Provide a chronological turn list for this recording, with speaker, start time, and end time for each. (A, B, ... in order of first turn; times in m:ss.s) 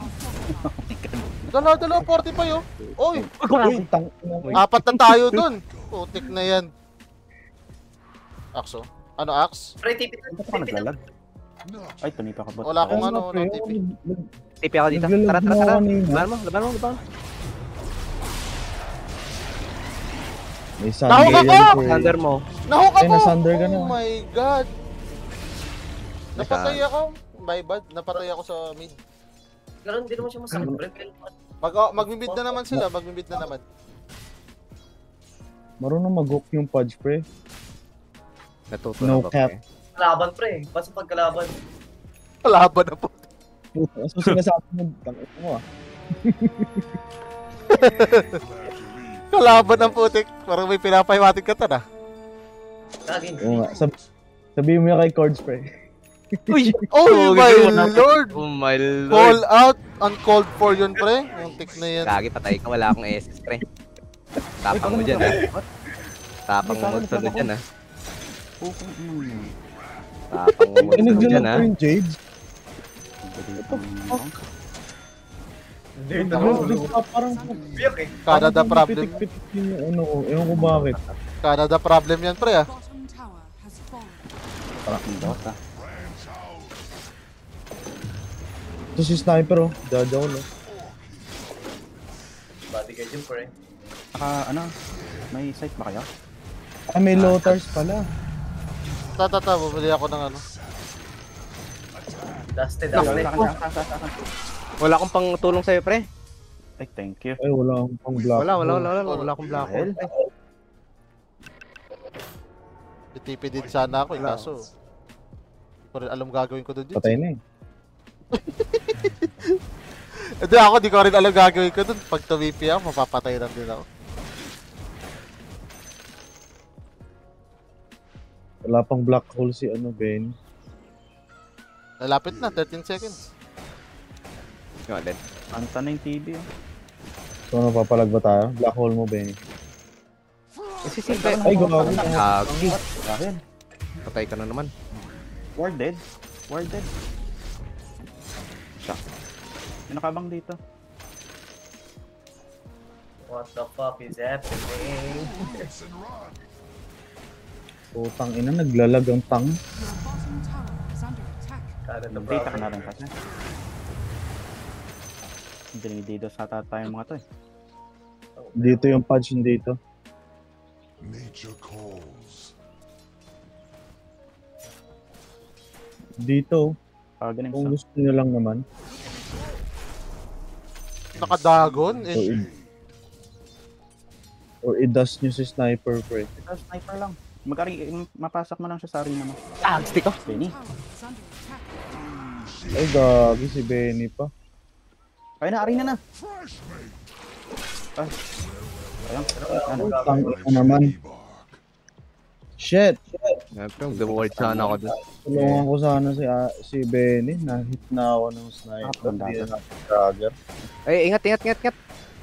0:00.5-0:01.8 A
0:01.5-0:03.3 B
0:02.9-0:04.6 C
0:03.4-0:03.8 D
0:03.6-0:03.8 A
0:04.5-0:06.7 B
0:05.6-0:06.2 E
0:08.6-0:09.7 B
0:09.8-0:10.9 F
0:10.3-0:11.0 A
0:11.6-0:12.3 E
0:12.0-0:13.1 A
0:12.6-0:13.8 B
0:12.9-0:14.3 C
0:14.6-0:17.0 D
0:14.9-0:16.3 C
0:20.8-0:22.1 C
0:21.1-0:21.8 B
0:21.1-0:22.4 D
0:22.7-0:24.7 B
0:23.0-0:23.9 C
0:26.4-0:26.8 D
0:26.4-0:29.0 B
0:29.8-0:31.3 F
0:30.6-0:30.8 C
0:31.6-0:33.6 B
0:32.0-0:32.5 F
0:35.8-0:37.2 C
0:38.7-0:39.6 D
0:39.0-0:39.5 C
0:40.0-0:41.6 F
0:42.4-0:43.2 B
0:43.8-0:45.6 C
0:46.2-0:46.9 C
0:47.7-0:48.4 B
0:47.7-0:49.9 E
0:49.3-0:51.8 B
0:53.1-0:53.7 F
0:53.4-0:54.1 E
0:53.4-0:53.9 C
0:54.6-0:55.7 C
0:56.4-0:56.8 C
0:56.5-0:59.4 D
0:56.9-0:58.4 B
0:59.1-1:02.2 B
1:00.0-1:02.3 E
1:02.1-1:03.6 D
1:04.6-1:05.4 D
1:04.7-1:05.6 A
1:06.5-1:07.6 D
1:06.6-1:07.5 A
1:08.6-1:09.5 A
1:09.2-1:10.3 E
1:10.3-1:11.7 D
1:10.8-1:11.4 A
1:10.9-1:12.2 C
1:13.2-1:14.4 A
1:13.6-1:14.2 C
1:16.0-1:17.0 F
1:16.1-1:17.6 C
1:17.5-1:18.5 E
1:17.7-1:18.1 F
1:18.3-1:19.2 B
1:18.3-1:21.0 C
1:21.4-1:22.7 B
1:24.9-1:25.6 A
1:25.6-1:27.0 E
1:29.0-1:30.5 C
1:30.5-1:32.1 E
1:32.7-1:33.5 F
1:34.1-1:34.7 A
1:34.9-1:35.3 E
1:35.3-1:36.1 A
1:36.9-1:38.0 C
1:37.2-1:37.6 D
1:39.0-1:43.0 E
1:39.2-1:40.4 B
1:42.6-1:43.5 F
1:43.0-1:44.2 A
1:43.0-1:43.5 D
1:44.8-1:46.1 D
1:46.8-1:47.4 A
1:47.4-1:48.9 C
1:48.4-1:50.1 D
1:49.0-1:49.3 B
1:49.4-1:49.7 E
1:49.6-1:50.1 A
1:53.2-1:54.7 B
1:53.5-1:54.5 E
1:54.2-1:54.5 D
1:55.9-1:57.2 B
1:57.0-1:57.4 C
1:58.3-1:59.5 B
2:00.4-2:03.8 B
2:08.7-2:10.3 C
2:12.0-2:13.2 B
2:12.3-2:13.3 E
2:14.9-2:15.2 D
2:15.5-2:16.5 A
2:17.5-2:19.4 C
2:20.9-2:22.8 D
2:20.9-2:23.4 A
2:21.4-2:22.8 C
2:24.0-2:24.7 D
2:25.6-2:26.9 A
2:29.9-2:30.6 A
2:33.3-2:35.7 F
2:34.4-2:36.5 E
2:38.0-2:39.6 C
2:41.9-2:42.7 F
2:42.1-2:43.1 A
2:42.3-2:43.9 E
2:45.8-2:47.2 A
2:48.4-2:49.0 F
2:48.6-2:49.8 C
2:51.0-2:52.5 E
2:56.2-2:56.7 C
2:57.2-2:57.8 A
2:57.5-2:58.6 C
3:01.1-3:02.9 E
3:01.2-3:02.5 B
3:02.1-3:02.5 C
3:04.6-3:06.3 C
3:06.4-3:09.4 A
3:09.6-3:10.2 D
3:10.2-3:10.6 A
3:11.9-3:13.5 E
3:12.8-3:14.3 C
3:15.4-3:16.0 A
3:16.1-3:17.1 E
3:19.0-3:20.2 A
3:19.3-3:20.2 F
3:19.8-3:20.9 C
3:19.9-3:21.6 E
3:22.6-3:23.4 C
3:23.6-3:25.0 D
3:23.9-3:30.3 C
3:25.4-3:25.6 A
3:28.8-3:29.5 A
3:30.9-3:31.8 D